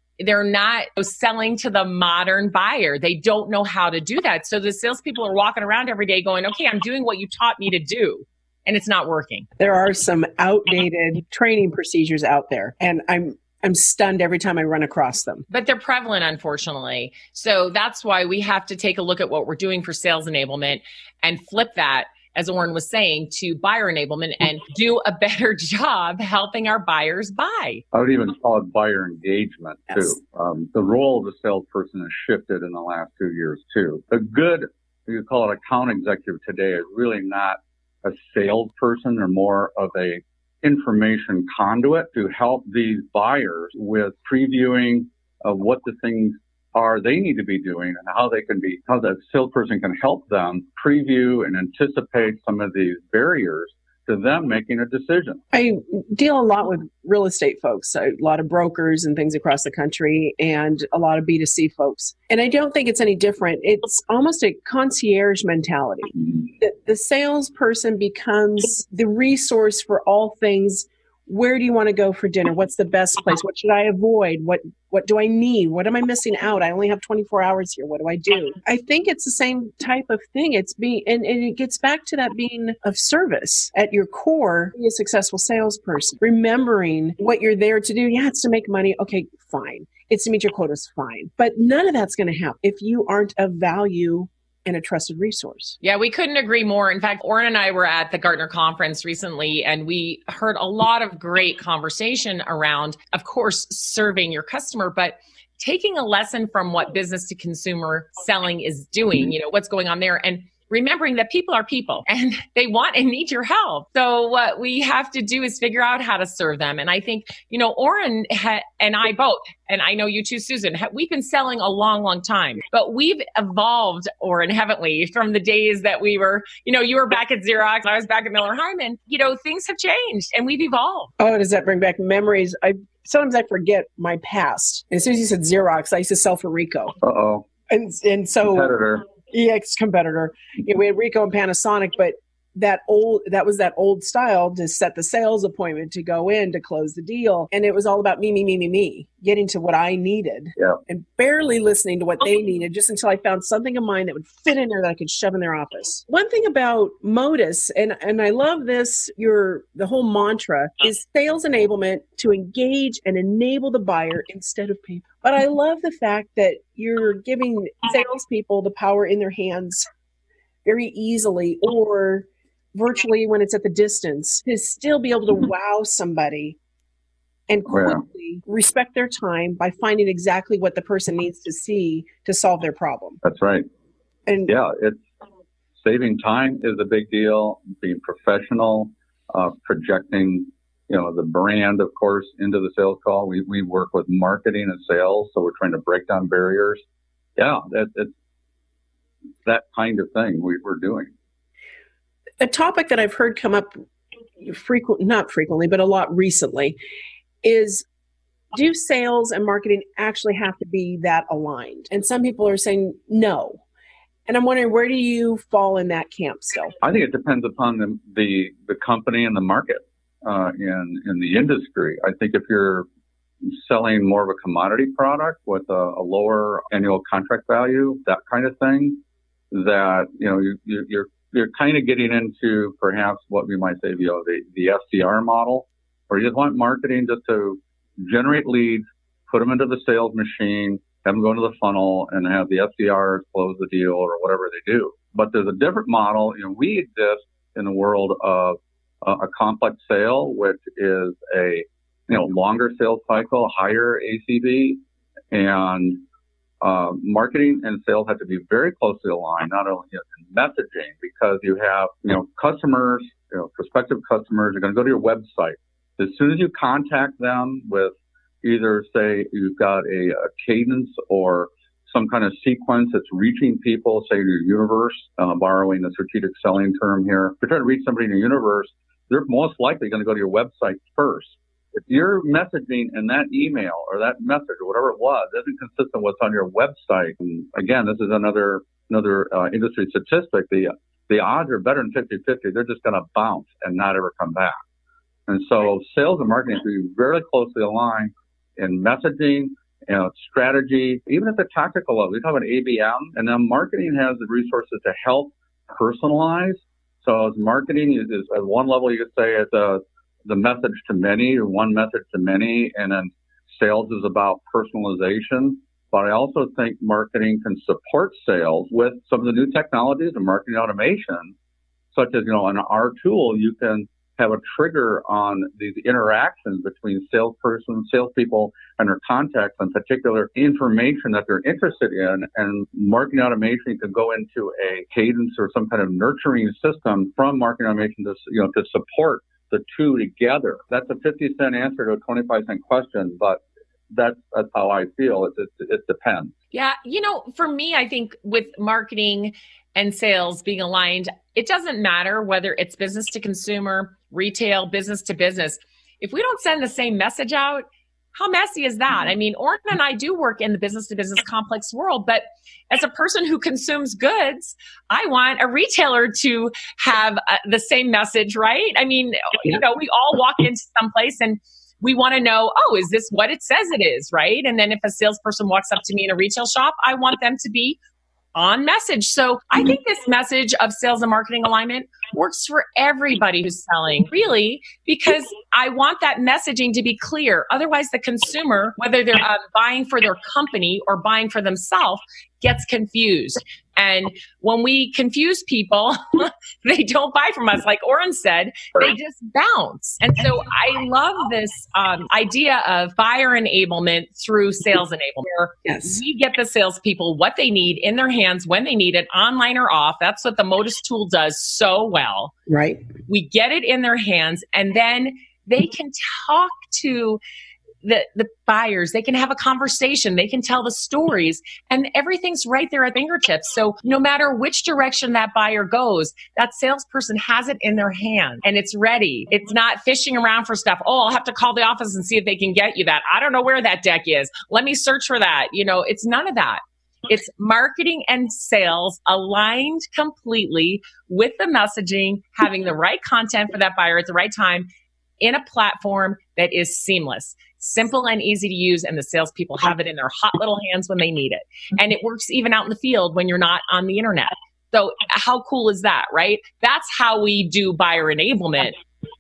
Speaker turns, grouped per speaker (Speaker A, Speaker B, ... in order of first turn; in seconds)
Speaker A: 0.2-9.5, 15.5-27.8, 95.8-131.1, 346.5-377.8, 378.4-412.3, 413.1-417.2, 417.8-444.7, 445.2-458.8
Speaker B: 9.6-15.4, 55.5-95.8, 131.2-136.9, 137.7-169.9, 170.7-176.6, 177.5-183.2, 184.3-184.5, 202.4-203.7, 204.4-206.8, 207.4-207.9, 208.5-213.6, 214.3-216.7, 405.6-406.0, 412.5-412.9
Speaker C: 27.9-55.4, 137.0-137.5, 138.4-139.0, 177.7-178.0, 183.2-183.7, 184.5-185.1, 185.8-196.8, 197.4-198.2, 199.5-201.1, 216.8-222.9, 223.5-254.8, 255.3-256.0, 256.6-294.6, 295.3-321.3, 321.9-346.3